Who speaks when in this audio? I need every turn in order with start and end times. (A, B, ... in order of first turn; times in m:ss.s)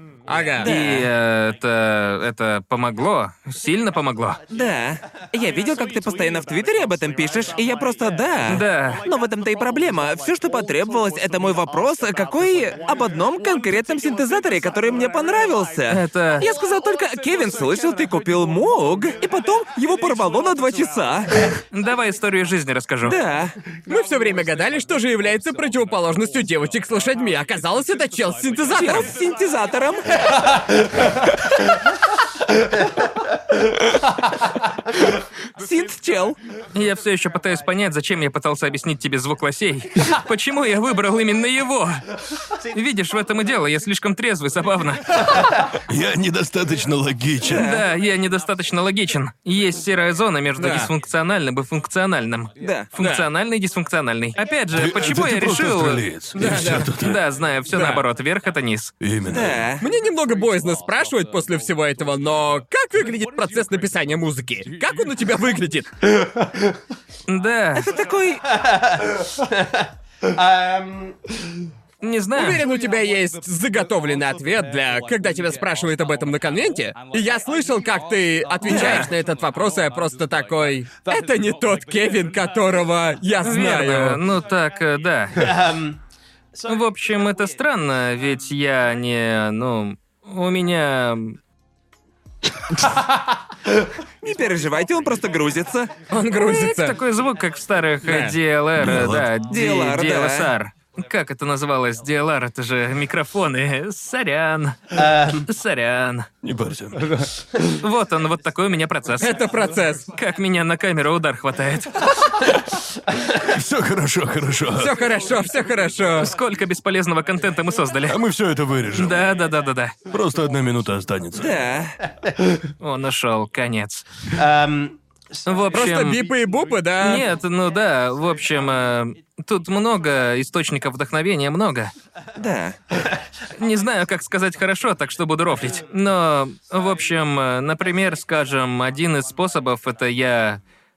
0:00.3-0:00.7 A
0:00.6-0:04.4 B
0:00.6-0:01.1 C
0:04.5-0:21.5 C
0:08.5-0:09.0 B
0:15.9-0:16.5 B
0:21.7-0:23.2 B
0:23.0-0:23.6 C
0:23.9-0:29.1 A
0:28.7-0:30.4 C
0:30.4-0:31.7 D
0:32.4-0:35.1 D
0:35.6-0:36.4 C
0:36.7-0:45.4 B
0:45.7-0:47.7 E
0:47.4-0:47.9 C
0:47.5-0:58.9 B
0:50.6-0:50.9 A
0:52.6-0:52.9 C
0:53.0-0:53.3 A
0:54.8-0:57.2 E
0:56.4-0:56.9 A
0:57.7-0:58.0 A
0:59.0-0:59.6 E
0:59.3-0:59.8 C
0:59.8-1:06.1 A
1:06.1-1:06.8 D
1:07.3-1:07.9 B
1:07.8-1:08.4 C
1:08.5-1:11.7 D
1:12.0-1:12.6 B
1:12.4-1:24.2 A
1:18.7-1:19.1 B
1:23.4-1:25.8 B
1:25.4-1:26.0 D
1:26.7-1:31.4 B
1:32.7-1:33.4 D
1:34.2-1:35.9 C
1:36.1-1:37.0 A
1:36.3-1:46.3 B
1:38.0-1:38.4 A
1:38.8-1:39.3 E
1:39.5-1:40.5 C
1:45.0-1:45.4 D
1:46.4-1:47.6 E
1:47.7-1:49.4 B
1:49.2-1:50.1 A
1:50.1-1:52.5 B
1:52.2-1:53.4 D
1:53.3-1:54.9 E
1:54.8-1:56.3 A
1:56.2-1:58.2 B
1:58.1-1:59.3 E
1:59.0-2:00.0 B
2:00.1-2:01.6 E
2:01.4-2:02.0 C
2:02.0-2:02.7 D
2:02.8-2:04.3 B
2:04.3-2:05.5 D
2:05.5-2:06.2 B
2:05.7-2:07.3 A
2:07.0-2:11.9 B
2:12.4-2:12.8 C
2:13.6-2:20.6 B